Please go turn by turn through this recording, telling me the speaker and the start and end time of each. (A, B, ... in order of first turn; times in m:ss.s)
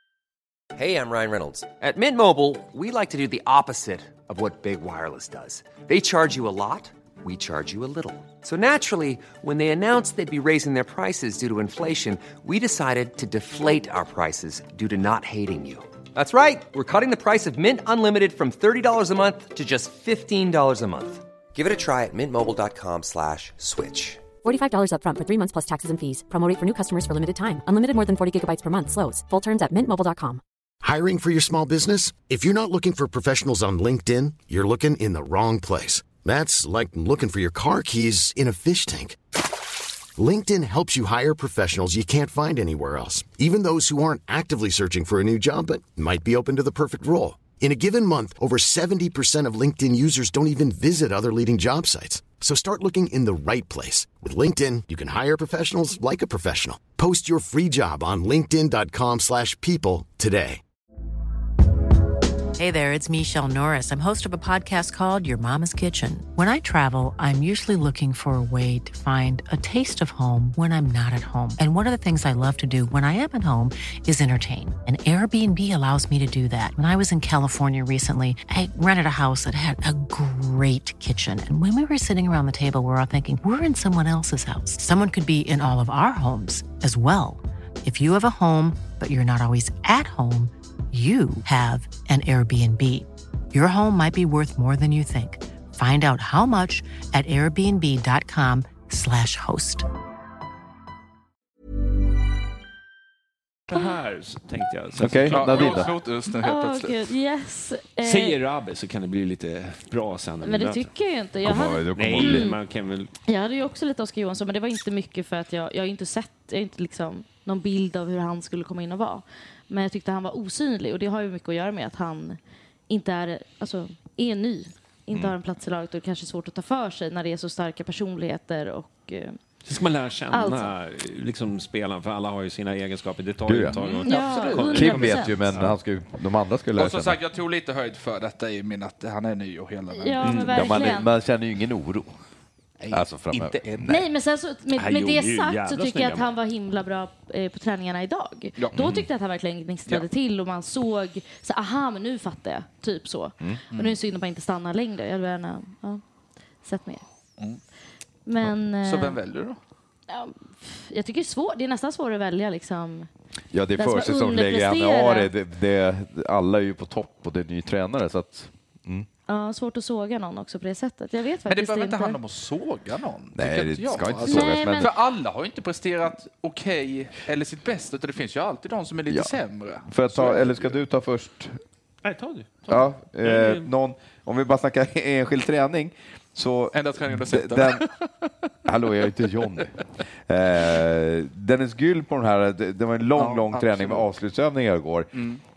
0:00.8-0:24.3 A
0:24.4-0:30.4 B
0:30.8-0:39.2 C
0:40.2-1:00.6 C
1:02.6-1:39.9 D
1:43.7-1:45.8 E
1:45.0-1:45.9 F
1:45.3-1:47.0 G
1:46.3-1:48.4 H
1:48.0-1:50.9 E
1:50.4-1:52.6 H
1:51.4-1:52.5 F
1:52.0-1:53.1 E
1:53.3-2:02.4 H
2:02.9-2:09.4 H
2:09.7-2:15.8 E
2:10.3-2:10.7 H
2:13.5-2:14.0 F
2:13.7-2:14.9 G
2:14.1-2:15.4 H
2:14.7-2:17.2 F
2:16.8-2:20.7 G
2:19.9-2:21.1 H
2:20.2-2:20.5 E
2:20.2-2:22.1 F
2:22.8-2:23.9 G
2:22.9-2:24.0 F
2:23.9-2:36.0 H
2:24.8-2:26.3 E
2:28.6-2:29.0 G
2:28.7-2:29.0 F
2:33.7-2:34.0 G
2:36.6-2:37.0 H
2:38.3-2:39.2 H
2:38.8-2:39.6 G
2:40.1-2:43.1 H
2:43.5-2:49.1 F
2:43.8-2:45.3 H
2:49.3-2:52.2 H
2:51.5-3:00.8 G
2:53.4-2:54.9 F
2:54.3-2:54.9 H
2:59.1-3:01.6 F
3:02.0-3:03.7 E
3:02.7-3:07.9 F
3:06.7-3:08.1 G
3:08.7-3:09.8 F
3:10.3-3:15.1 F
3:13.2-3:14.1 G
3:15.2-3:15.4 G